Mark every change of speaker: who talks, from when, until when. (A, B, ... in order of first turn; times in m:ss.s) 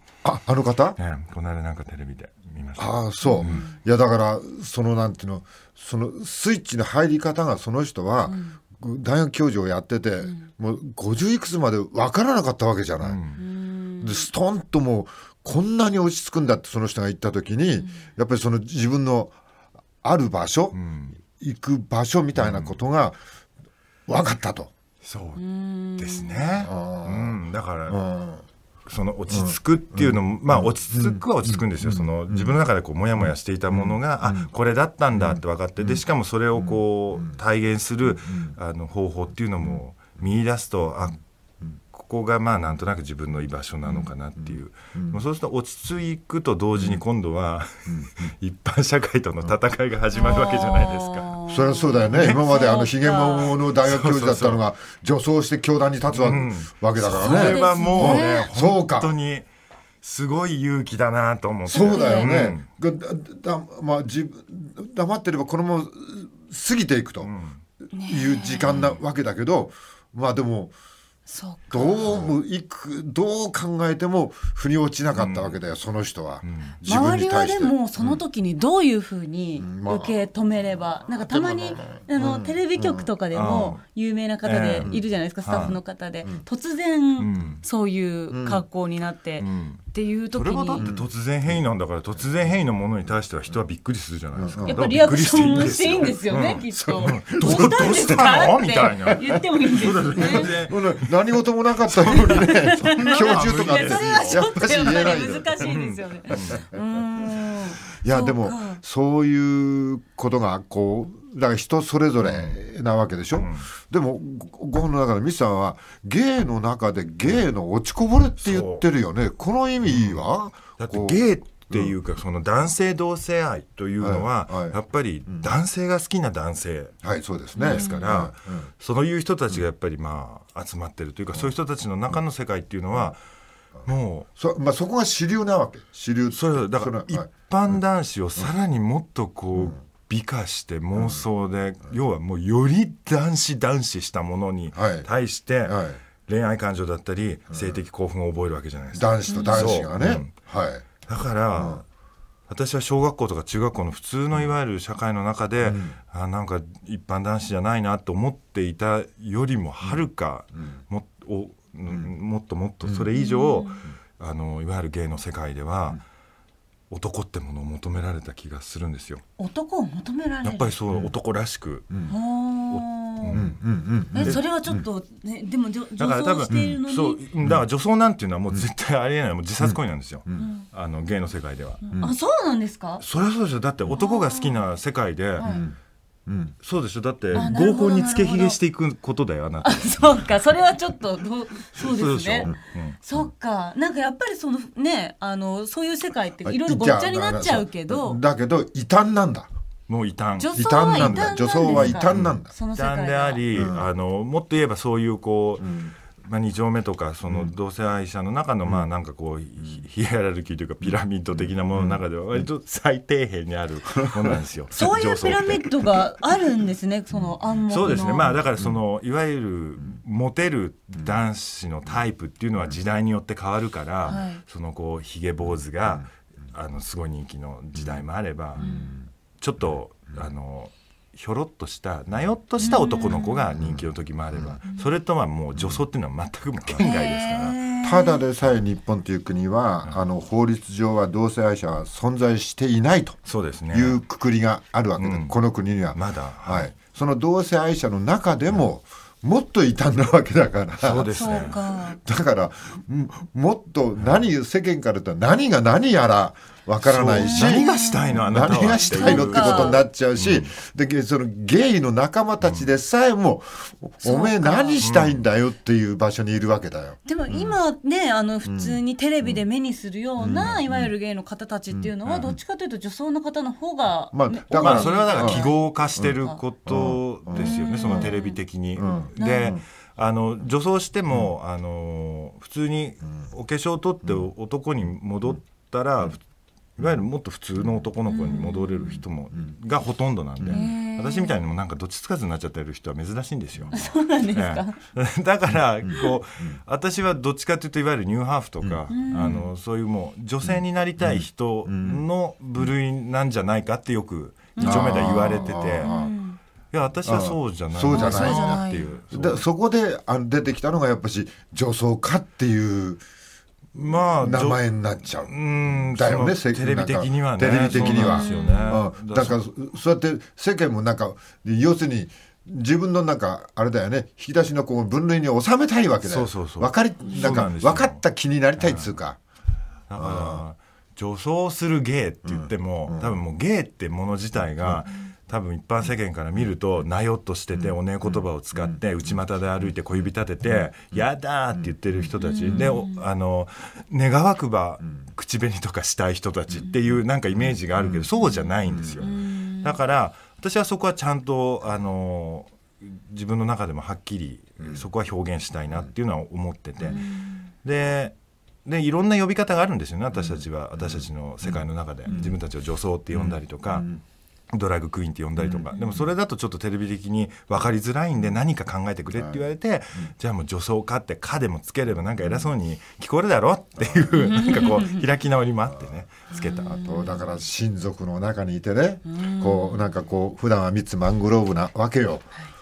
0:00.2-0:01.0 A
0:01.0-0:03.6 B
0:02.8-0:13.2 A
0:03.2-0:03.8 C
0:08.2-0:08.6 C
0:13.0-0:13.4 B
0:13.4-0:14.3 C
0:14.0-0:19.4 A
0:17.8-0:18.0 C
0:20.0-0:23.2 A
0:20.7-0:21.2 B
0:22.3-0:22.8 B
0:24.1-0:24.7 A
0:25.0-0:25.4 B
0:25.4-0:26.5 C
0:26.0-0:28.0 B
0:26.6-0:28.5 A
0:28.8-0:41.2 B
0:29.3-0:32.6 A
0:33.2-0:34.5 A
0:35.1-0:37.4 A
0:38.0-0:38.5 A
0:41.9-0:51.4 B
0:44.4-0:45.2 A
0:46.8-0:47.0 A
0:47.9-0:48.3 A
0:50.1-0:53.5 C
0:51.5-0:59.1 A
0:52.1-0:52.4 B
0:53.8-0:54.6 B
0:56.1-0:59.5 B
0:57.1-0:58.5 C
1:00.0-1:02.6 B
1:01.6-1:07.3 A
1:01.7-1:02.3 C
1:07.2-1:07.6 B
1:07.9-1:09.0 C
1:08.1-1:10.8 A
1:11.3-1:12.3 C
1:11.7-1:18.2 A
1:15.1-1:15.6 B
1:16.4-1:16.8 B
1:16.8-1:30.9 C
1:19.6-1:20.4 A
1:21.0-1:23.7 A
1:23.3-1:23.8 B
1:24.4-1:25.8 B
1:24.8-1:26.4 A
1:27.2-1:27.6 B
1:28.3-1:28.6 A
1:29.4-1:41.1 B
1:30.8-1:31.6 A
1:34.3-1:34.9 A
1:34.6-1:40.5 C
1:36.7-1:39.4 A
1:40.0-1:45.7 A
1:41.9-1:46.6 B
1:42.2-1:48.8 C
1:46.3-1:47.0 A
1:47.9-2:02.0 A
1:52.2-1:52.6 B
1:53.3-1:53.7 B
1:58.4-1:58.8 B
1:59.8-2:07.0 B
2:04.0-2:05.5 A
2:07.0-2:08.7 A
2:07.5-2:13.2 B
2:07.6-2:08.1 C
2:13.8-2:17.8 A
2:13.8-2:14.3 B
2:16.3-2:30.4 B
2:19.5-2:19.8 A
2:20.9-2:21.2 A
2:24.7-2:25.1 A
2:25.6-2:26.0 A
2:27.5-2:27.8 A
2:28.9-2:30.9 A
2:29.3-2:29.8 C
2:31.0-2:31.8 B
2:31.5-2:31.8 A
2:32.5-2:46.0 B
2:35.6-2:36.0 A
2:42.8-2:43.1 A
2:43.1-2:43.8 C
2:46.9-2:49.2 B
2:49.4-2:50.8 C
2:50.4-2:52.0 B
2:51.9-2:52.1 A
2:52.1-2:53.4 C
2:52.7-2:53.6 B
2:53.3-2:54.8 A
2:54.1-2:57.2 C
2:54.1-2:54.4 B
2:56.0-3:01.8 B
2:56.5-2:56.8 A
2:59.6-3:00.5 A
3:00.4-3:00.6 C
3:01.8-3:03.0 C
3:03.0-3:05.5 B
3:03.9-3:04.6 C
3:05.4-3:05.6 C
3:05.4-3:06.5 A
3:06.6-3:10.3 B
3:07.3-3:08.6 C
3:09.6-3:18.2 C
3:11.7-3:13.0 B
3:16.4-3:19.5 A
3:19.9-3:35.7 B
3:20.4-3:23.4 C
3:20.5-3:22.5 A
3:23.5-3:23.9 A
3:25.6-3:25.9 A
3:27.3-3:27.5 A
3:29.6-3:29.8 A
3:30.8-3:32.5 A
3:34.1-3:34.4 A
3:34.7-3:38.4 C
3:37.1-3:38.8 A
3:37.7-3:48.7 B
3:44.0-3:44.4 C
3:45.4-3:46.1 A
3:47.7-3:48.0 A
3:48.6-3:49.0 C
3:48.6-3:49.1 A
3:49.4-3:57.6 B
3:52.6-3:53.5 C
3:53.5-3:54.6 A
3:55.5-3:55.8 A
3:56.8-3:58.2 C
3:57.8-4:27.6 A
4:03.2-4:04.0 B
4:05.0-4:05.4 B
4:05.9-4:06.8 B
4:10.8-4:11.6 B
4:11.1-4:12.0 C
4:14.0-4:14.3 B
4:16.8-4:20.5 B
4:17.2-4:19.8 C
4:22.4-4:22.7 B
4:24.0-4:24.8 C
4:24.8-4:25.2 B
4:27.0-4:36.4 C
4:28.4-4:29.4 A
4:30.2-4:30.9 A
4:31.7-4:32.4 A
4:32.0-4:32.3 B
4:34.1-4:38.2 A
4:34.5-4:46.2 B
4:37.3-4:38.4 C
4:38.7-4:39.6 A
4:39.2-4:39.6 C
4:44.0-4:44.3 A
4:46.8-5:05.9 B
4:47.6-4:47.9 A
4:48.1-4:49.0 C
4:49.3-4:49.6 A
4:50.5-4:51.4 C
4:53.7-4:54.8 C
4:55.8-4:56.6 A
4:58.6-4:59.4 A
4:58.9-4:59.5 C
5:00.4-5:02.0 A
5:04.6-5:06.4 C
5:04.6-5:06.1 A
5:06.7-5:09.4 B
5:07.0-5:13.0 A
5:07.9-5:09.0 C
5:13.7-5:14.6 B
5:14.2-5:29.2 A
5:15.2-5:19.4 B
5:17.7-5:18.8 C
5:26.0-5:28.0 B
5:27.1-5:27.4 C
5:28.6-5:28.9 B
5:29.9-5:57.0 B
5:30.0-5:30.4 A
5:32.2-5:33.2 A
5:34.6-5:34.8 A
5:36.3-5:36.6 A
5:37.5-5:42.8 A
5:42.2-5:43.0 C
5:44.8-5:45.1 A
5:46.5-5:49.2 A
5:49.0-5:49.8 C
5:54.6-5:54.9 A
5:56.8-5:57.5 C
5:57.6-6:03.9 B
6:00.1-6:02.4 A
6:03.1-6:04.0 A
6:04.5-6:16.9 B
6:05.4-6:06.1 A
6:08.1-6:08.4 A
6:09.1-6:10.1 A
6:12.2-6:12.5 A
6:13.8-6:14.8 A
6:14.3-6:14.8 C
6:15.8-6:22.3 A
6:16.3-6:17.3 C
6:19.0-6:20.0 C